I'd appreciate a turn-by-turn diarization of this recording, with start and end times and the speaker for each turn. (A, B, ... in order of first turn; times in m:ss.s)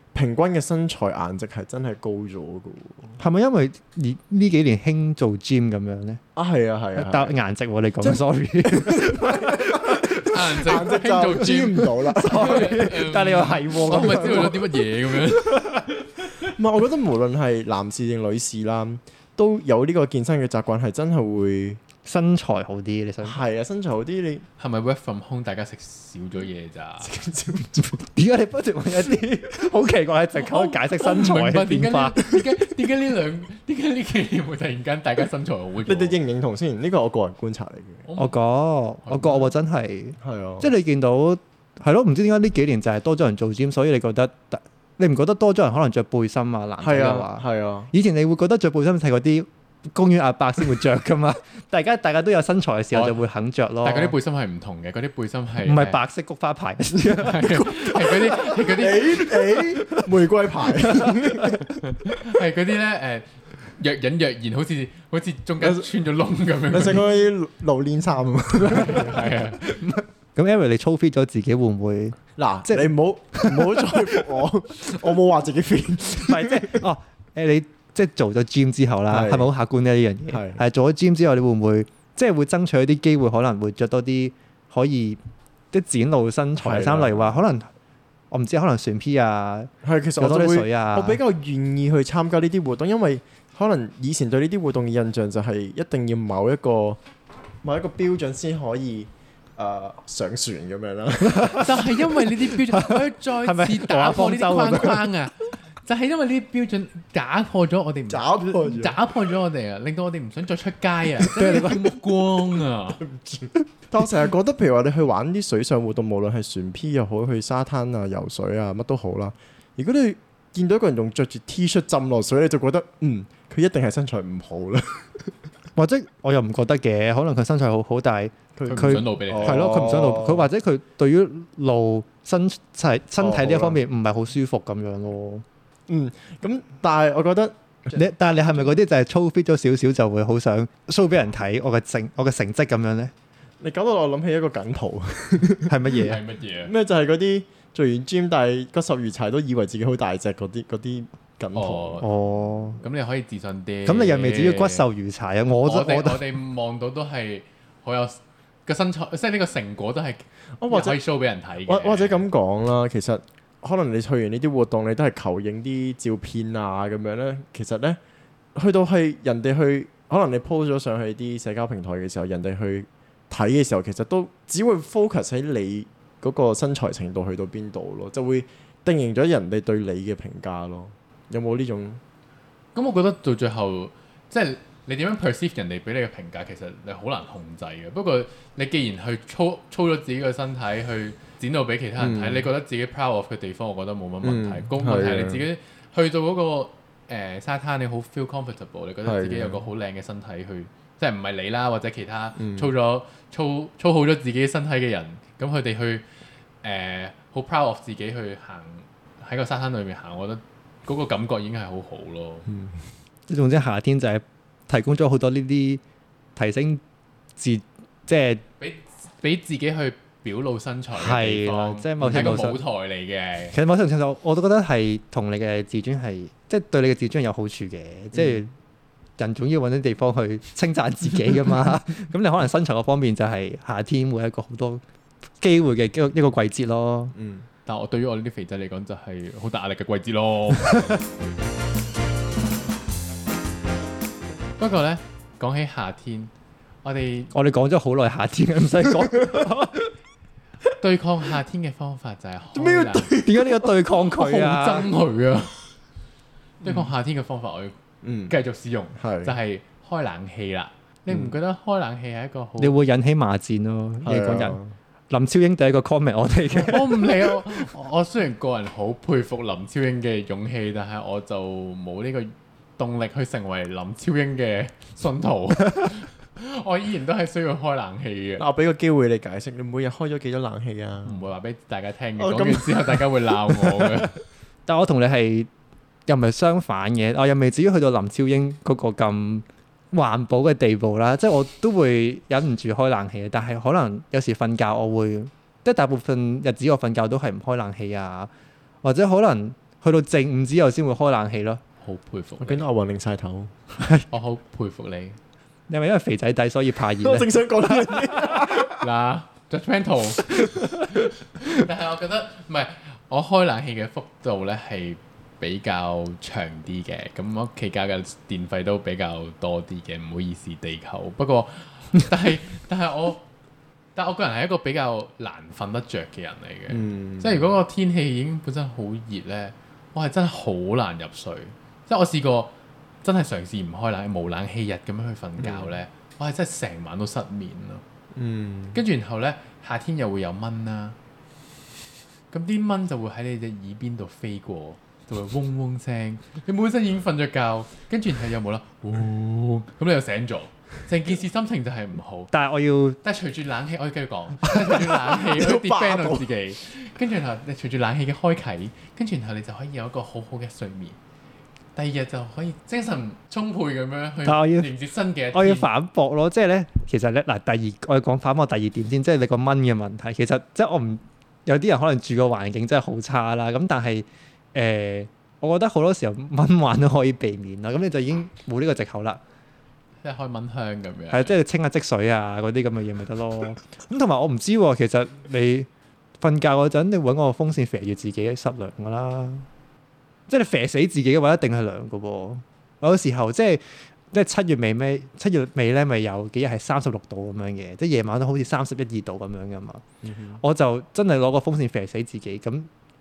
0:00.1-0:03.2 A
0:03.2-0:06.2 B
0:06.3-0:07.3 A
0:07.0-0:10.3 B
0:08.0-0:12.8 A
0:10.2-0:16.5 C
0:12.0-0:14.6 B
0:13.8-0:14.6 A
0:15.4-0:15.8 B
0:16.4-0:21.8 A
0:22.0-0:23.4 B
0:23.2-0:24.4 A
0:24.6-0:27.1 C
0:27.0-0:28.0 A
0:28.0-0:32.2 B
0:30.3-0:36.2 C
0:35.9-0:38.0 A
0:38.0-0:38.3 C
0:38.2-0:54.2 B
0:39.0-0:39.5 C
0:40.2-0:40.7 A
0:46.8-0:47.9 A
0:52.9-0:53.2 C
0:53.8-0:56.0 C
0:55.6-0:58.4 B
0:57.1-0:59.3 C
0:58.4-1:01.7 A
0:59.1-1:00.1 B
1:00.6-1:01.6 B
1:01.8-1:07.0 C
1:06.7-1:09.3 A
1:08.6-1:09.6 C
1:09.0-1:14.2 B
1:12.4-1:16.8 A
1:16.1-1:25.2 B
1:19.1-1:19.5 A
1:20.3-1:20.6 A
1:25.7-1:27.7 B
1:26.6-1:27.4 A
1:28.3-1:31.2 B
1:29.8-1:37.0 A
1:37.6-1:42.0 A
1:41.3-1:41.8 B
1:41.6-1:53.0 C
1:42.7-1:45.0 B
1:48.1-1:49.0 A
1:51.4-1:52.0 B
1:53.0-2:05.3 A
2:05.8-2:15.4 B
2:08.6-2:10.5 A
2:08.6-2:09.8 C
2:13.2-2:13.8 A
2:15.9-2:18.7 A
2:17.9-2:23.1 B
2:23.6-2:25.9 A
2:25.7-2:26.2 B
2:26.0-2:26.7 C
2:26.6-2:32.0 A
2:31.5-2:32.1 C
2:32.0-2:32.8 B
2:32.8-2:34.8 C
2:33.8-2:36.2 B
2:35.6-2:42.2 C
2:40.6-2:41.0 A
2:41.7-2:48.0 A
2:48.5-3:02.0 A
3:02.7-3:26.0 C
3:12.0-3:12.5 A
3:14.2-3:15.4 A
3:19.0-3:19.6 A
3:22.4-3:22.7 A
3:26.6-3:32.5 C
3:32.5-3:32.7 A
3:33.3-3:35.8 B
3:36.4-3:36.8 B
3:37.4-3:38.4 B
3:38.6-3:43.6 C
3:41.0-3:42.6 B
3:42.0-3:42.4 A
3:43.5-3:48.5 B
3:48.1-3:48.5 A
3:49.2-3:54.8 B
3:55.4-3:57.1 B
3:57.1-3:57.4 A
3:57.6-4:01.0 C
4:04.6-4:06.3 C
4:06.8-4:07.3 C
4:07.3-4:09.9 B
4:10.8-4:13.1 C
4:12.5-4:13.7 A
4:13.2-4:14.9 B
4:14.2-4:15.5 C
4:16.6-4:17.8 C
4:18.0-4:18.3 A
4:18.3-4:22.7 C
4:19.0-4:19.3 A
4:22.6-4:24.6 B
4:24.0-4:24.7 A
4:25.1-4:27.1 B
4:26.5-4:38.4 C
4:38.4-4:41.2 A
4:41.0-4:44.2 C
4:42.2-4:43.9 A
4:44.6-4:45.5 B
4:46.1-4:58.3 B
4:58.8-5:01.6 B
5:01.8-5:02.6 C
5:02.4-5:03.5 A
5:04.1-5:05.2 C
5:05.7-5:08.4 B
5:07.0-5:08.8 A
5:08.8-5:23.2 C
5:24.0-5:32.5 C
5:26.7-5:27.5 A
5:33.0-5:37.8 C
5:35.4-5:35.7 A
5:38.1-5:38.8 A
5:38.7-5:41.0 C
5:42.3-5:52.3 C
5:52.3-5:53.0 B
5:53.0-6:01.0 C
5:54.9-5:56.3 A
6:01.7-6:05.7 C
6:04.2-6:04.7 B
6:05.3-6:19.2 B
6:20.0-6:21.3 C
6:21.1-6:25.7 B
6:26.2-6:29.5 B
6:30.3-6:39.8 B
6:40.0-6:40.4 A
6:40.4-6:42.7 B